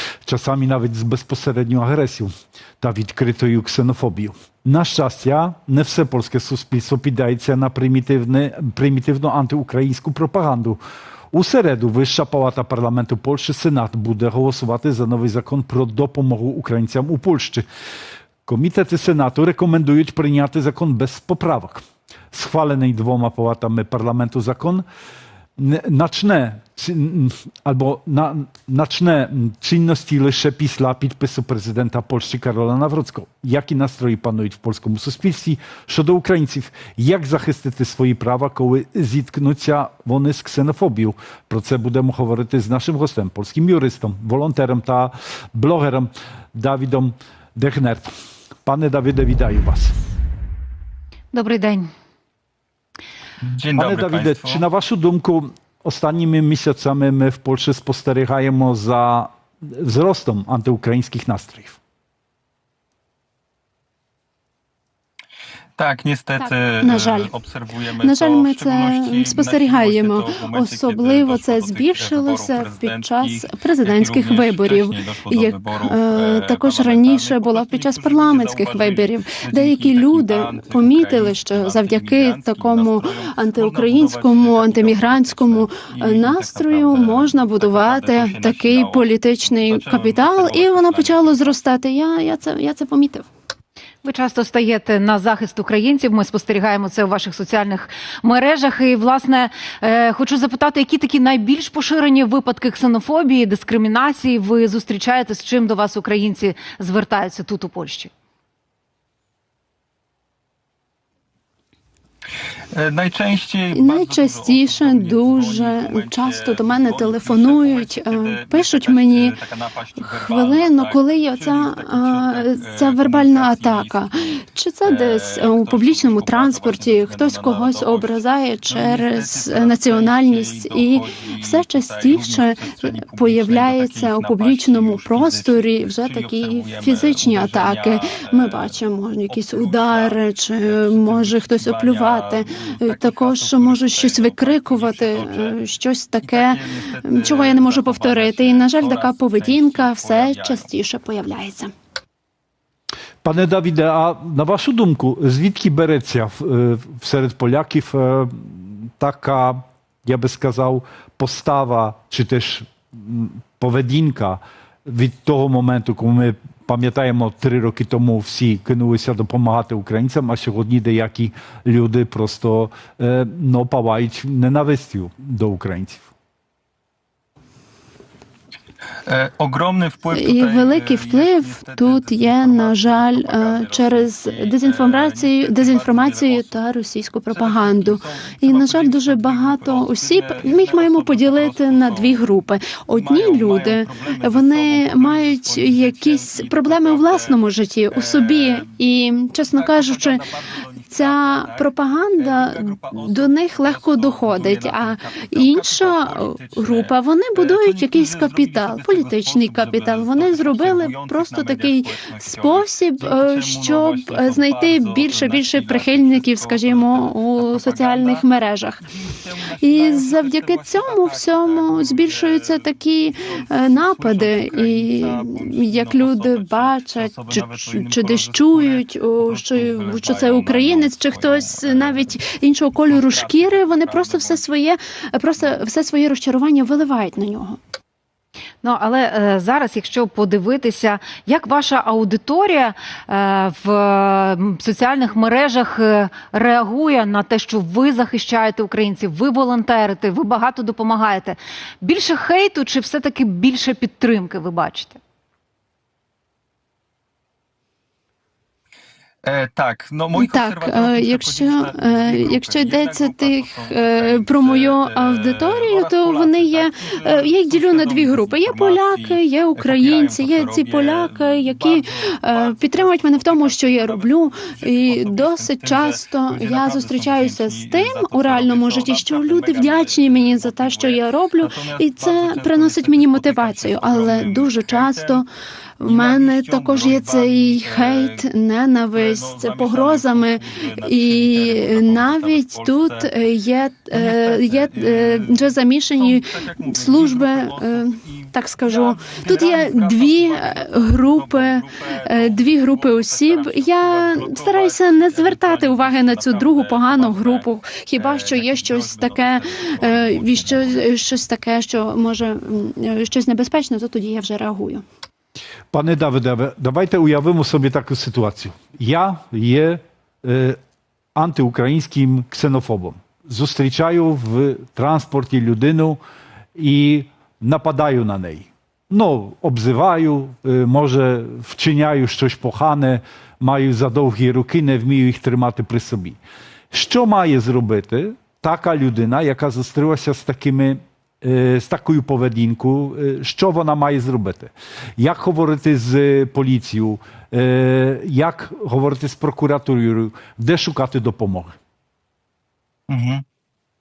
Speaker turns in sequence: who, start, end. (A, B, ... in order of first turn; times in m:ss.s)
0:00.2-0:10.8 A
0:11.3-0:17.6 A
0:18.4-0:24.8 A
0:25.6-0:48.1 A
0:48.6-0:50.0 A
0:51.3-0:51.9 B
0:53.4-0:54.6 C
0:53.7-1:01.8 A
1:05.8-1:31.5 C
1:06.4-1:07.3 D
1:07.9-1:33.2 D
1:34.0-1:48.1 B
1:52.7-2:25.6 C
1:53.7-1:59.4 D
2:00.0-2:31.7 D
2:26.2-2:30.7 C
2:33.2-2:56.1 A
2:59.0-3:06.6 C
3:00.1-3:20.3 D
3:07.3-3:18.8 C
3:19.4-3:38.3 C
3:20.9-3:38.8 D
3:38.8-3:54.5 C
3:39.6-3:57.6 D
3:58.6-4:15.0 B
4:19.2-4:45.3 C
4:20.1-4:45.2 D
4:45.8-5:14.8 D
4:45.8-4:48.3 C
4:48.9-4:53.2 C
4:53.8-5:10.8 C
5:15.7-5:20.6 A
5:21.1-5:26.0 A
5:26.6-5:36.2 A
5:36.7-5:51.6 A
5:52.9-5:53.2 C